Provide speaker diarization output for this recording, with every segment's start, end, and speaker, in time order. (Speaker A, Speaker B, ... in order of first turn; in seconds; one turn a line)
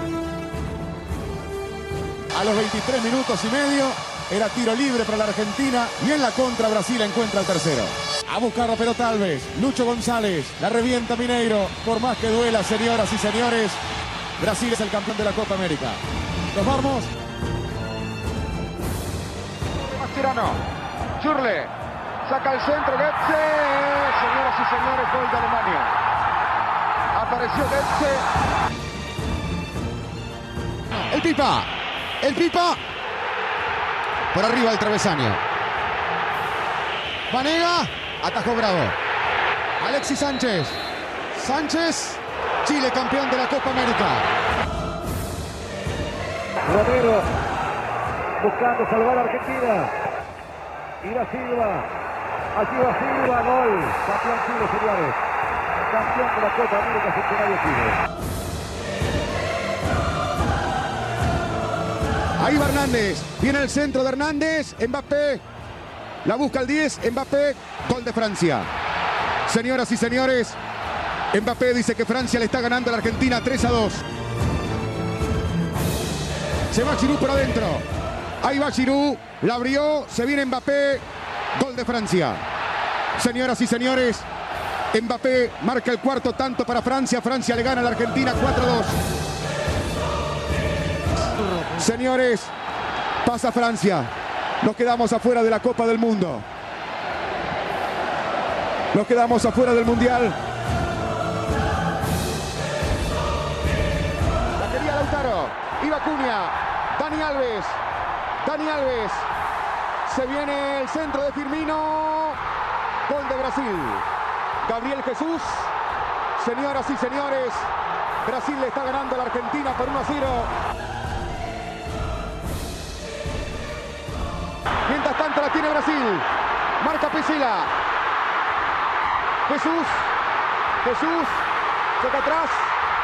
Speaker A: 2.3-13.8
Speaker A: 14.4-16.0
Speaker A: 16.5-17.1
Speaker A: 19.8-20.6
Speaker A: 21.2-21.7
Speaker A: 22.3-25.9
Speaker A: 27.1-28.2
Speaker A: 30.9-31.7
Speaker A: 32.2-32.8
Speaker A: 34.3-35.4
Speaker A: 37.3-39.0
Speaker A: 39.8-40.8
Speaker A: 41.3-44.3
Speaker A: 46.7-47.3
Speaker A: 48.4-49.9
Speaker A: 51.0-51.9
Speaker A: 52.5-55.2
Speaker A: 55.9-58.0
Speaker A: 62.4-65.4
Speaker A: 66.2-68.7
Speaker A: 69.5-70.6
Speaker A: 71.3-74.0
Speaker A: 76.7-77.9
Speaker A: 78.4-81.0
Speaker A: 81.5-82.4
Speaker A: 83.2-84.3
Speaker A: 84.9-89.0
Speaker A: 91.7-92.5
Speaker A: 93.2-96.5
Speaker A: 98.9-100.4
Speaker A: 104.6-107.8
Speaker A: 108.4-109.3
Speaker A: 110.1-112.4
Speaker A: 113.1-114.0
Speaker A: 114.6-115.7
Speaker A: 116.4-117.7
Speaker A: 118.2-120.5
Speaker A: 124.9-126.3
Speaker A: 126.8-127.7
Speaker A: 129.5-130.1
Speaker A: 130.8-131.5
Speaker A: 132.0-132.8